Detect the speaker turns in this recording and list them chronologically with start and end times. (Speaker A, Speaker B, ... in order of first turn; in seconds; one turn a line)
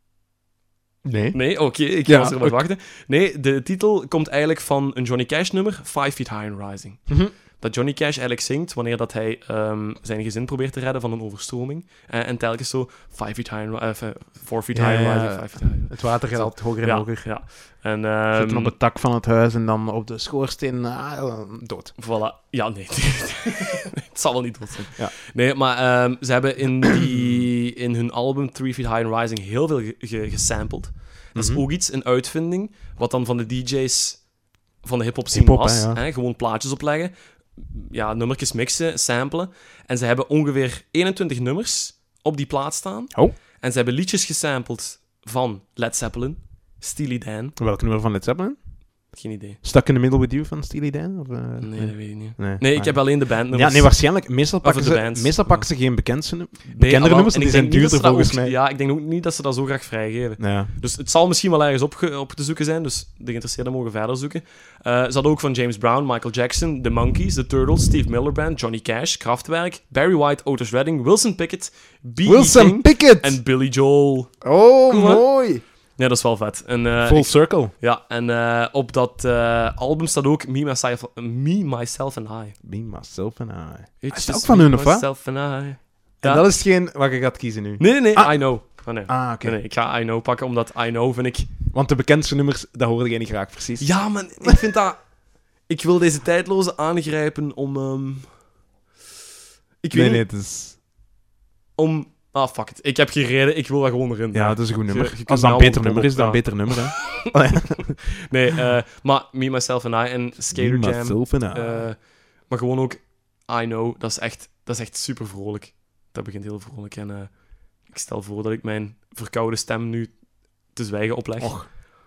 Speaker A: 1.1-2.6
Speaker B: 1.3-18.7
Speaker A: 14.7-17.4
Speaker A: 18.3-22.0
Speaker B: 22.0-47.6
Speaker A: 31.4-31.6
Speaker A: 35.3-36.0
Speaker A: 47.6-58.6
Speaker B: 49.1-49.6
Speaker B: 51.6-55.9
Speaker B: 56.7-82.6
Speaker A: 60.4-60.7
Speaker A: 72.2-73.4
Speaker A: 74.4-75.6
Speaker A: 77.0-77.7
Speaker A: 82.6-85.2
Speaker B: 84.0-86.5
Speaker A: 86.2-89.6
Speaker B: 87.8-91.5
Speaker A: 91.7-94.6
Speaker B: 93.8-98.4
Speaker B: 99.8-100.2
Speaker A: 99.9-100.8
Speaker B: 101.8-107.2
Speaker A: 104.3-108.0
Speaker B: 108.3-121.9
Speaker A: 110.5-111.9
Speaker A: 121.4-121.7